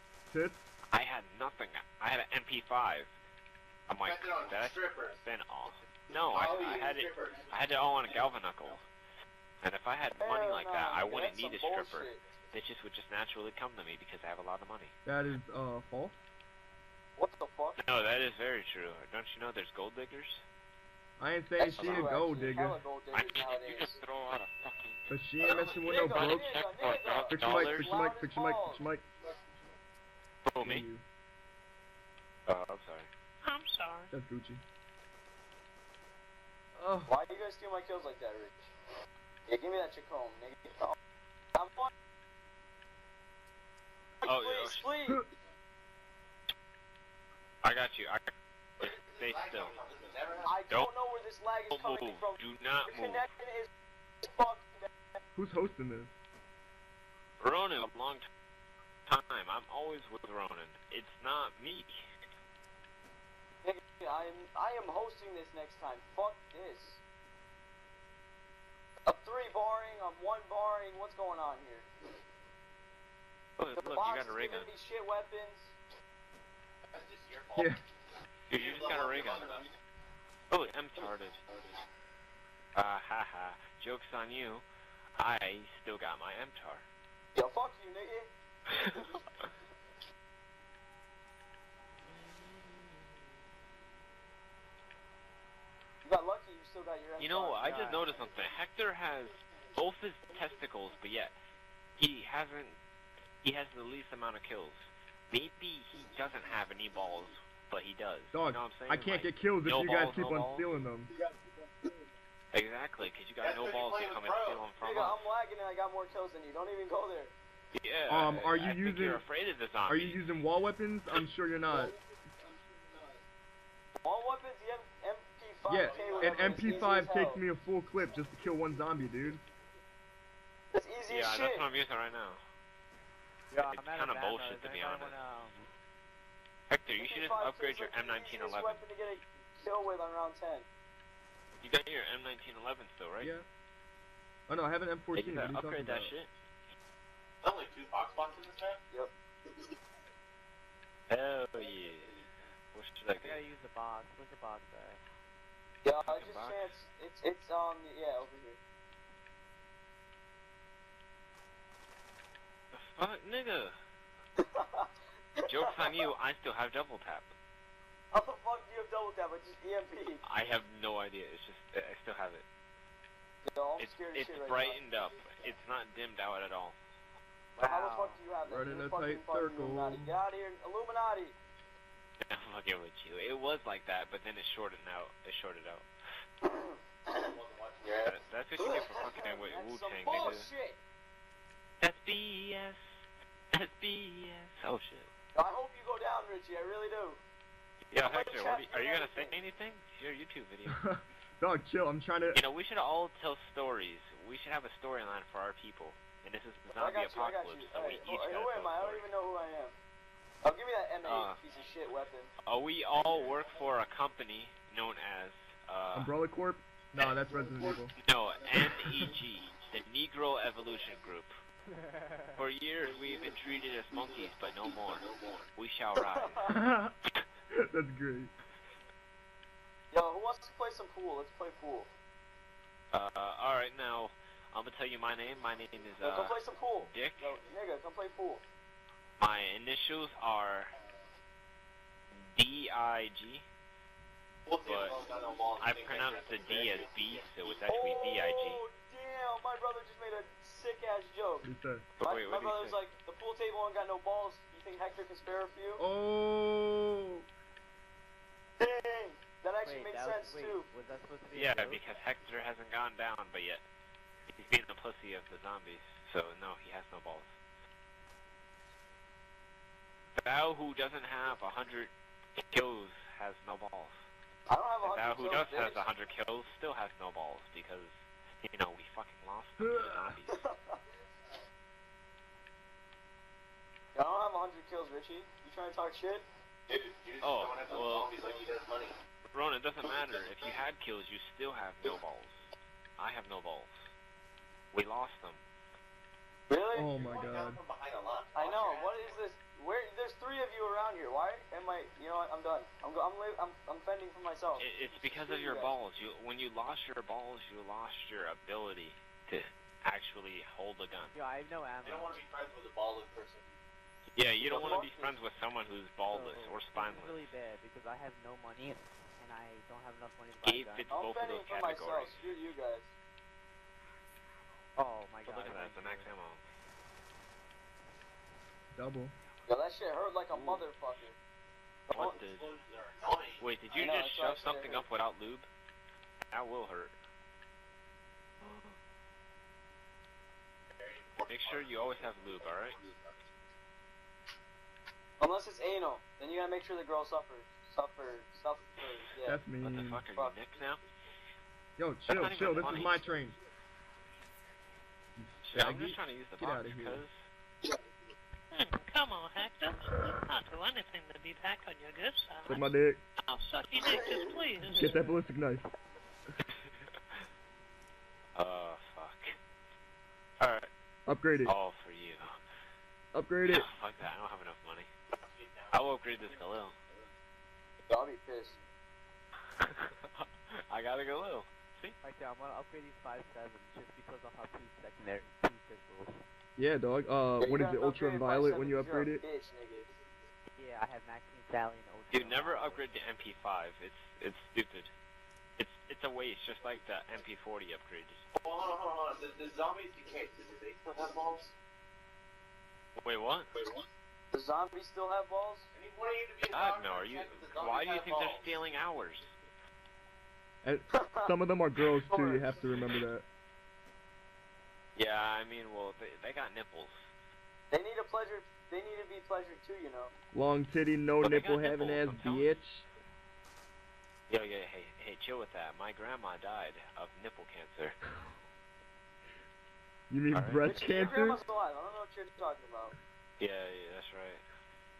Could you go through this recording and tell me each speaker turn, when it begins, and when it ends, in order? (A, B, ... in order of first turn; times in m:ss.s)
0:00.3-0:00.7 A
0:00.9-0:03.1 B
0:03.9-0:08.8 B
0:04.0-0:05.2 C
0:06.3-0:07.5 C
0:09.6-0:14.9 B
0:10.2-0:12.2 D
0:15.0-0:16.2 A
0:17.2-0:17.8 D
0:17.8-0:20.4 B
0:21.2-0:22.8 A
0:21.6-0:24.0 D
0:21.8-0:22.1 B
0:23.1-0:27.9 B
0:25.1-0:26.6 A
0:25.8-0:28.8 D
0:27.3-0:29.0 A
0:30.4-0:30.9 B
0:30.6-0:31.0 A
0:32.5-0:33.1 B
0:33.4-0:34.1 E
0:34.1-0:34.6 A
0:36.8-0:37.1 A
0:37.0-0:38.6 D
0:39.5-0:41.0 D
0:41.5-0:41.9 D
0:44.2-0:45.2 D
0:44.2-0:44.9 B
0:47.6-0:49.7 B
0:48.8-0:50.6 C
0:50.4-0:53.7 D
0:51.7-0:53.3 B
0:54.2-0:55.2 D
0:55.4-0:56.1 A
0:57.4-0:58.3 B
0:59.1-1:02.0 B
1:03.6-1:07.0 D
1:09.0-1:11.8 D
1:13.6-1:14.7 B
1:13.7-1:15.7 D
1:16.9-1:17.8 C
1:18.5-1:19.6 B
1:18.5-1:19.7 C
1:20.5-1:21.4 B
1:22.7-1:24.6 B
1:25.2-1:26.8 B
1:27.3-1:28.3 D
1:32.1-1:33.0 B
1:36.0-1:38.1 D
1:37.2-1:41.3 B
1:42.0-1:42.8 B
1:43.4-1:50.7 B
1:48.3-1:51.1 A
1:52.5-1:55.2 B
1:53.4-1:54.7 C
1:54.8-1:57.3 D
1:57.7-2:00.3 B
1:58.1-1:59.2 A
1:59.9-2:01.9 A
2:04.0-2:07.4 D
2:05.7-2:09.4 A
2:05.7-2:07.1 C
2:10.7-2:11.6 D
2:11.1-2:12.4 B
2:13.5-2:15.7 F
2:13.6-2:15.2 B
2:16.7-2:18.8 B
2:16.9-2:20.6 D
2:21.6-2:23.3 B
2:23.2-2:23.4 A
2:24.5-2:26.1 A
2:25.1-2:26.3 B
2:27.4-2:28.8 C
2:31.1-2:33.4 B
2:33.1-2:35.0 F
2:35.8-2:38.6 D
2:36.0-2:36.6 B
2:42.7-2:43.8 B
2:44.4-2:46.1 D
2:45.5-2:47.3 B
2:48.1-2:50.2 D
2:50.2-2:52.4 B
2:53.4-2:54.8 D
2:53.8-2:56.8 B
2:57.6-2:58.2 F
2:57.6-3:01.4 D
2:58.4-3:00.2 A
3:02.2-3:05.9 B
3:06.4-3:10.8 D
3:07.1-3:08.0 C
3:08.0-3:10.5 B
3:11.8-3:12.8 B
3:13.5-3:15.1 B
3:15.3-3:17.2 D
3:17.9-3:20.8 B
3:18.0-3:19.4 D
3:20.7-3:22.4 A
3:22.3-3:29.1 B
3:26.7-3:29.7 D
3:30.4-3:32.3 D
3:31.0-3:31.4 B
3:32.4-3:36.1 B
3:33.0-3:33.4 C
3:35.9-3:37.9 A
3:38.0-3:41.4 B
3:38.7-3:39.1 A
3:41.7-3:42.4 F
3:42.4-3:46.5 B
3:44.8-3:45.4 C
3:46.0-3:46.6 D
3:46.4-3:47.0 A
3:47.5-3:48.3 A
3:49.9-3:51.9 D
3:52.9-3:57.4 B
3:56.0-3:58.4 D
3:59.2-4:00.7 B
4:02.1-4:03.4 B
4:04.4-4:07.5 C
4:04.6-4:05.0 B
4:05.6-4:08.6 B
4:07.7-4:11.5 D
4:11.4-4:11.8 A
4:12.0-4:12.8 B
4:12.0-4:15.8 D
4:15.8-4:17.2 A
4:18.6-4:20.6 D
4:19.6-4:21.8 F
4:21.3-4:23.6 B
4:24.3-4:27.3 B
4:30.2-4:33.9 B
4:34.5-4:35.8 D
4:34.8-4:40.4 B
4:39.6-4:40.2 A
4:40.3-4:40.8 D
4:43.9-4:46.2 D
4:46.7-4:48.9 C
4:47.2-4:48.1 B
4:49.3-4:52.4 B
4:53.0-4:53.9 B
4:54.7-4:55.4 B
4:56.5-4:56.9 D
4:56.7-4:57.6 A
4:56.9-4:59.2 C
4:58.3-5:04.7 D
5:04.6-5:11.1 B
5:05.2-5:05.7 D
5:11.1-5:12.2 F
5:11.8-5:13.5 C
5:14.1-5:17.2 B
5:14.4-5:15.1 D
5:16.1-5:21.0 F
5:20.4-5:22.2 B
5:20.9-5:22.9 D
5:24.8-5:26.1 F
5:25.2-5:26.4 B
5:28.7-5:29.1 A
5:29.4-5:31.2 D
5:30.3-5:30.7 B
5:31.9-5:32.2 D
5:31.9-5:32.5 B
5:32.2-5:33.5 C
5:33.4-5:35.5 B
5:33.7-5:34.8 D
5:36.3-5:36.9 B
5:38.4-5:38.7 B
5:40.8-5:43.2 C
5:41.3-5:42.8 B
5:45.2-5:49.4 D
5:49.2-5:50.0 A
5:49.6-5:50.8 B
5:51.8-5:53.4 A
5:52.1-5:53.0 B
5:55.2-5:57.0 A
5:55.4-5:57.2 B
5:58.5-6:02.7 E
6:02.4-6:03.0 A
6:03.3-6:05.2 E
6:03.8-6:04.4 D
6:04.7-6:05.7 A
6:08.4-6:09.3 B
6:10.4-6:10.7 B
6:11.0-6:11.5 A
6:11.4-6:12.3 B
6:13.1-6:13.7 A
6:13.5-6:14.9 B
6:15.2-6:15.7 C
6:15.7-6:16.7 B
6:17.9-6:18.6 D
6:19.6-6:22.0 B
6:22.0-6:26.2 F
6:26.6-6:29.2 A
6:27.4-6:29.9 D
6:30.5-6:32.8 F
6:32.1-6:34.9 B
6:35.6-6:38.3 B
6:38.3-6:41.5 C
6:43.0-6:43.5 B
6:44.3-6:45.7 D
6:45.7-6:48.5 C
6:46.5-6:49.3 B
6:50.6-6:53.2 A
6:50.9-6:51.3 D
6:52.1-6:52.5 D
6:55.0-6:57.1 B
6:57.7-7:00.1 D
7:00.3-7:02.8 A
7:01.2-7:02.6 B
7:04.3-7:08.0 B
7:10.1-7:11.4 A
7:10.3-7:11.1 B
7:10.6-7:12.9 D
7:13.4-7:14.4 B